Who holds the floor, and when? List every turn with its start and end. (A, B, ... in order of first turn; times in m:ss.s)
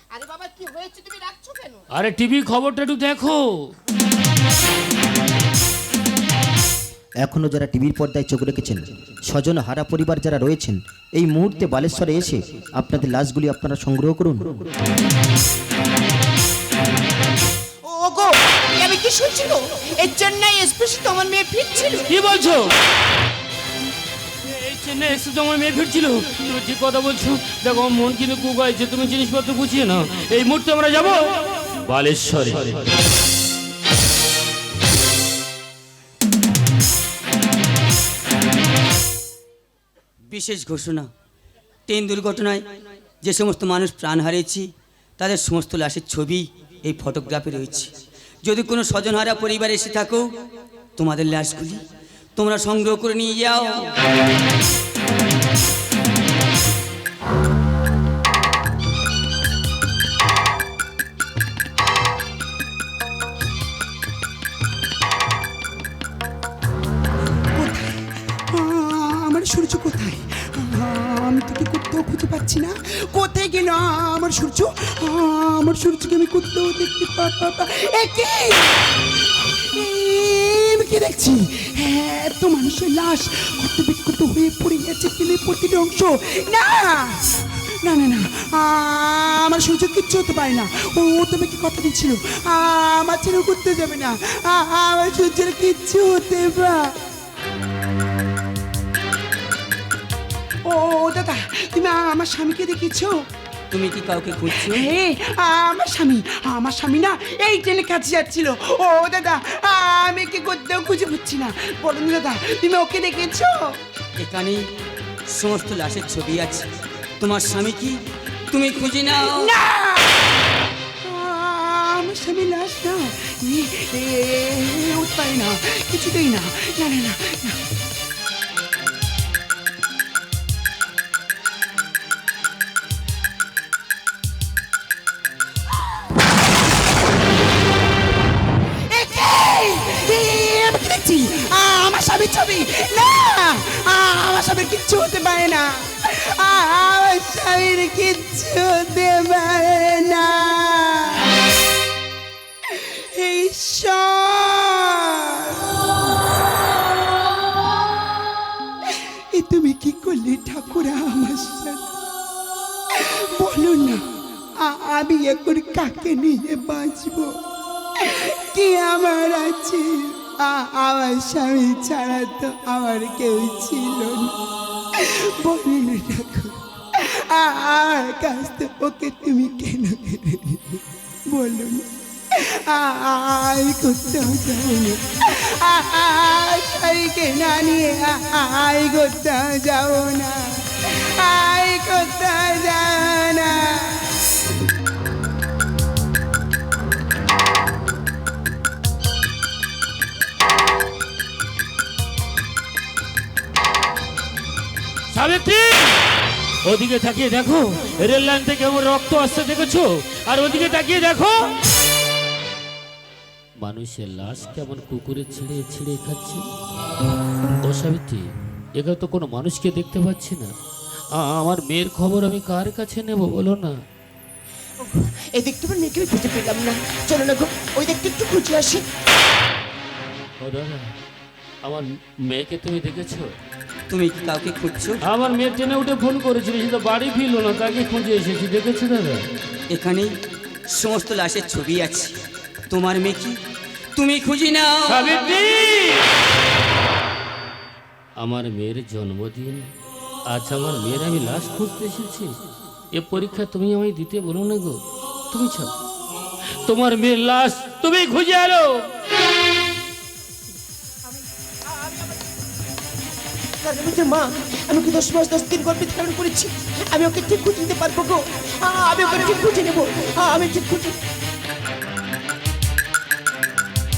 0:00.1-0:01.8 A
0:01.9-0:03.7 B
0:07.2-0:14.6 C
0:17.8-0:22.0 A
0:22.1-0:22.7 B
0:24.4-0:32.9 B
0:40.3-0:41.1 D
0:41.9-0:47.9 D
0:48.4-0:50.3 D
0:51.0-0:51.8 D
0:52.4-0:54.0 D
1:07.6-1:08.0 E
1:08.5-1:18.9 E
1:19.7-1:36.9 E
1:40.7-1:43.2 E
1:43.7-1:44.9 D
1:44.7-1:53.7 E
1:54.2-1:54.7 D
1:55.3-1:56.7 D
1:57.2-1:58.0 D
1:58.5-1:59.5 D
1:59.4-2:00.1 E
2:01.0-2:07.6 E
2:18.9-2:31.2 E
2:32.7-2:35.6 E
2:39.3-2:41.8 E
2:43.0-2:44.0 E
2:44.6-2:47.4 E
2:48.0-2:54.4 E
2:55.0-3:10.6 E
3:11.2-3:14.0 E
3:25.1-3:26.0 B
3:26.6-3:31.5 B
3:33.6-3:36.4 B
3:37.6-3:38.2 B
3:38.8-3:40.5 B
3:41.2-3:43.8 B
3:44.8-3:48.8 A
3:50.4-3:50.9 B
3:51.6-3:53.4 B
3:53.9-3:55.0 D
3:55.0-3:59.2 B
3:59.7-4:00.1 D
4:00.7-4:02.2 D
4:02.7-4:03.4 D
4:04.0-4:05.2 D
4:04.9-4:06.1 B
4:08.2-4:09.6 B
4:10.3-4:12.4 B
4:12.9-4:15.7 B
4:16.6-4:18.8 B
4:23.6-4:31.0 A